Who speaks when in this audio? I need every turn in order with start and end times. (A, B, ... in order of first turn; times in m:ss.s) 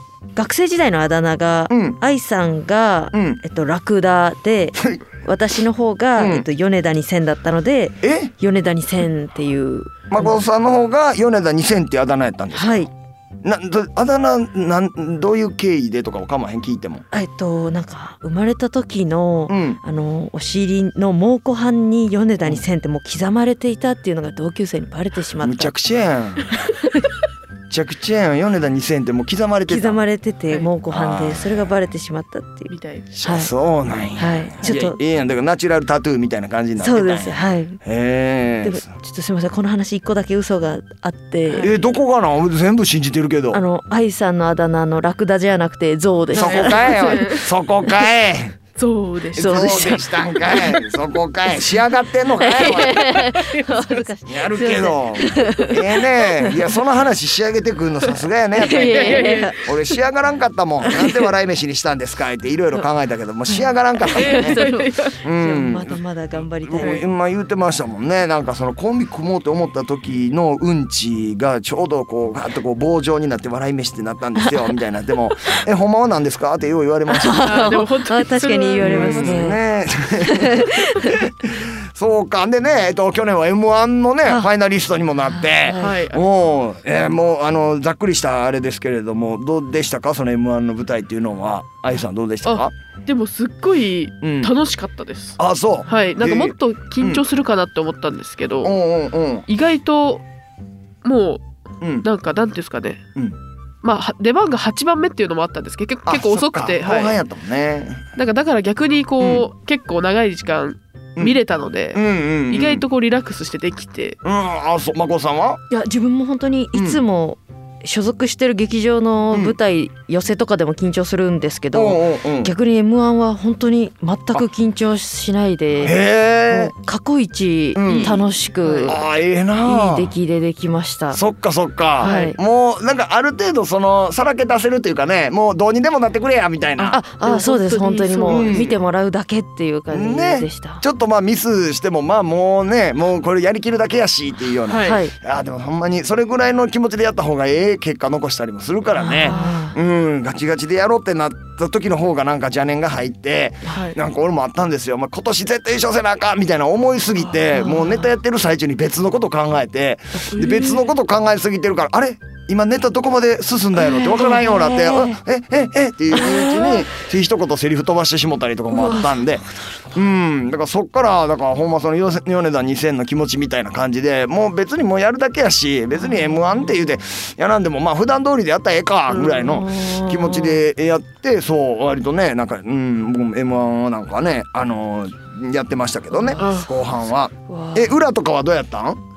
0:00.4-0:10.4 A
0:01.7-0:02.0 B
0:03.1-0:03.4 B
0:06.2-0:06.4 B
0:08.0-0:08.3 B
0:10.1-0:12.9 B
0:12.5-0:12.9 A
0:13.4-0:17.0 B
0:17.1-0:25.7 A
0:19.5-0:19.8 B
0:25.4-0:26.6 B
0:27.7-0:30.0 B
0:29.7-0:33.5 A
0:30.9-0:31.7 B
0:32.7-0:33.1 C
0:33.2-0:38.9 B
0:34.2-0:35.0 A
0:36.8-0:37.8 A
0:38.6-0:41.7 A
0:41.5-0:41.8 C
0:41.6-0:43.6 B
0:43.5-0:47.4 A
0:46.3-0:47.5 C
0:46.3-0:48.6 B
0:48.8-0:49.9 C
0:49.3-0:53.1 B
0:49.4-0:50.8 A
0:52.3-0:56.7 A
0:52.7-0:54.0 C
0:54.3-1:04.6 B
0:58.5-0:59.6 A
0:58.6-0:59.6 C
1:00.8-1:01.2 A
1:03.5-1:07.0 A
1:04.1-1:05.2 C
1:05.2-1:06.0 B
1:06.6-1:17.8 B
1:17.1-1:19.6 A
1:17.4-1:19.4 C
1:18.8-1:32.7 B
1:20.2-1:21.2 A
1:25.4-1:26.0 A
1:25.8-1:26.2 C
1:32.4-1:35.4 C
1:34.2-1:34.5 B
1:35.4-1:37.2 B
1:35.9-1:38.8 C
1:38.6-1:39.5 B
1:39.5-1:40.2 C
1:41.0-1:41.4 C
1:41.8-1:42.0 B
1:42.0-1:43.0 C
1:43.8-1:47.2 C
1:46.0-1:48.0 B
1:48.2-1:54.2 C
1:49.2-1:49.4 B
1:51.9-1:52.8 B
1:54.2-1:55.6 B
1:55.7-2:09.0 A
1:56.7-1:57.0 B
2:01.7-2:02.5 B
2:05.8-2:06.7 B
2:07.7-2:08.2 B
2:07.8-2:09.0 C
2:08.8-2:10.1 B
2:09.6-2:11.2 A
2:11.1-2:17.0 B
2:12.0-2:12.3 C
2:12.0-2:12.4 A
2:16.8-2:18.7 C
2:16.9-2:20.8 A
2:18.3-2:18.7 B
2:19.9-3:09.0 B
2:24.7-2:25.0 C
2:24.8-2:25.1 A
2:29.0-2:29.8 A
2:29.3-2:29.6 C
2:33.7-2:34.0 C
2:37.5-2:38.1 A
2:40.3-2:40.8 C
2:43.8-2:45.2 A
2:46.1-2:46.8 A
2:48.7-2:49.2 A
2:56.0-2:56.7 A
2:59.1-2:59.5 C
2:59.3-3:00.6 A
3:06.1-3:06.5 A
3:06.4-3:06.7 C
3:07.5-3:08.0 A